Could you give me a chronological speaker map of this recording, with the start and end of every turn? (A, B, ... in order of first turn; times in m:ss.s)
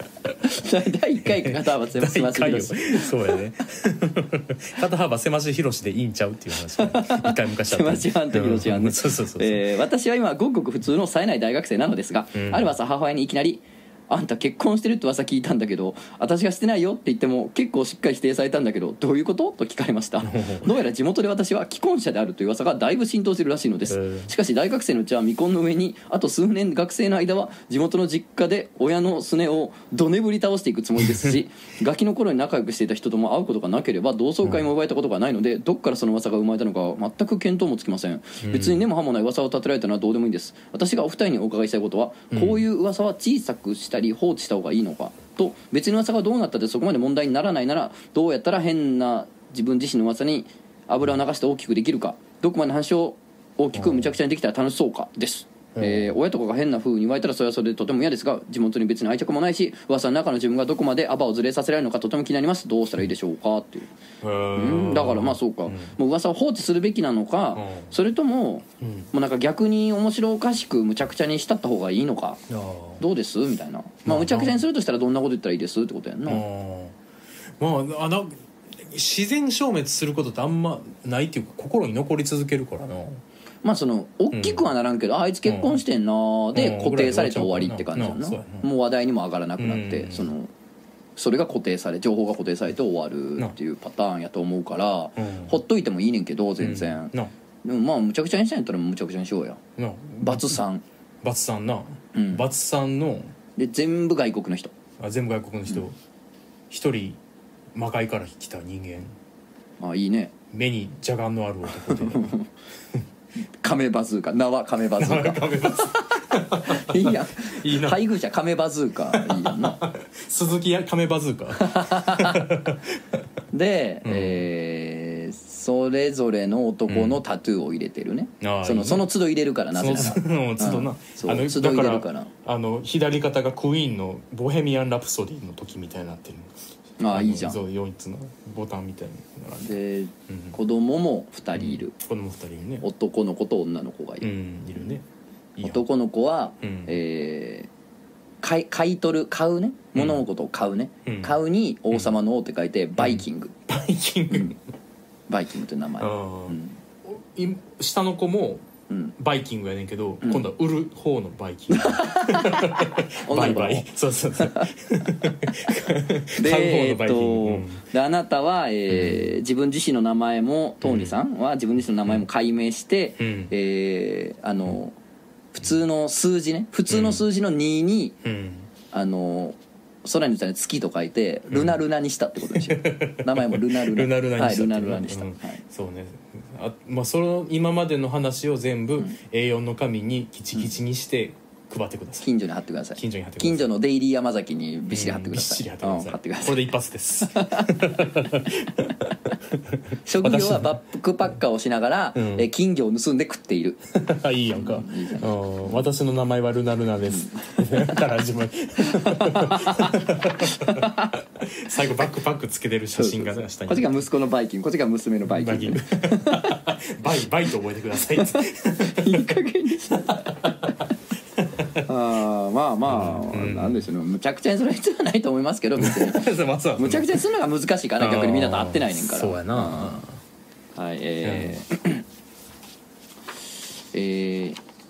0:00.4-0:03.4 A
0:01.2-0:09.7 B
0:06.7-1:03.9 A
0:12.4-0:12.7 B
0:20.2-0:20.7 B
0:23.9-0:24.3 B
0:38.4-0:38.8 B
0:42.3-0:42.6 B
0:53.7-0:54.1 B
0:55.8-0:56.1 B
1:04.2-1:05.9 B
1:04.6-1:12.4 A
1:07.6-1:07.9 B
1:08.8-1:09.1 B
1:12.5-1:13.0 B
1:13.0-1:16.4 A
1:14.0-1:14.6 B
1:16.3-1:17.0 B
1:17.6-1:23.2 B
1:23.6-1:30.5 A
1:24.3-1:24.7 B
1:25.4-1:25.8 B
1:26.5-1:28.7 B
1:29.6-1:30.3 B
1:31.2-1:37.1 A
1:35.2-1:35.6 B
1:36.6-1:37.3 B
1:37.6-1:39.6 A
1:39.8-1:40.6 B
1:40.2-1:40.8 A
1:41.2-1:43.3 B
1:42.1-1:42.4 A
1:43.6-1:44.7 A
1:45.0-1:46.0 B
1:46.7-1:47.2 B
1:47.7-1:49.1 B
1:49.8-1:50.3 A
1:50.5-1:52.3 B
1:51.8-1:52.5 A
1:53.6-1:59.8 A
1:55.0-1:58.0 B
1:59.1-2:03.2 B
2:01.6-2:02.5 A
2:03.5-2:12.3 A
2:04.0-2:04.4 B
2:06.9-2:07.2 B
2:08.4-2:09.1 B
2:09.7-2:16.6 B
2:17.0-2:17.6 A
2:17.1-2:20.6 B
2:19.6-2:21.9 A
2:21.6-2:22.8 B
2:22.8-2:24.3 A
2:24.2-2:25.0 B
2:25.6-2:25.8 B
2:25.6-2:27.7 A
2:26.6-2:26.9 B
2:28.4-2:33.5 A
2:30.0-2:30.2 B
2:31.0-2:31.4 B
2:33.0-2:34.6 B
2:35.3-2:36.8 A
2:36.0-2:38.6 B
2:38.9-2:39.1 A
2:39.2-2:47.8 B
2:41.7-2:43.9 A
2:44.4-2:44.7 A
2:46.4-2:55.0 A
2:48.9-2:49.3 B
2:50.8-2:51.1 B
2:53.2-2:53.5 B
2:55.5-2:58.2 A
2:56.9-2:57.2 B
2:58.2-2:58.7 B
2:58.9-3:05.6 A
3:01.5-3:01.8 B
3:02.5-3:12.3 B
3:12.2-3:16.6 A
3:13.0-3:13.7 B
3:14.9-3:20.7 B
3:17.2-3:18.1 A
3:20.0-3:23.8 A
3:22.1-3:22.5 B
3:23.9-3:34.0 B
3:24.5-3:25.8 A
3:27.1-3:28.0 A
3:28.8-3:31.2 A
3:33.0-3:36.6 A
3:35.3-3:39.3 B
3:38.2-3:40.8 A
3:40.0-3:40.8 B
3:41.4-3:41.8 B
3:41.8-3:50.0 A
3:42.9-3:43.8 B
3:45.8-3:47.2 B
3:48.0-3:50.2 B
3:50.8-3:52.0 A
3:51.2-3:51.6 B
3:53.9-3:54.6 A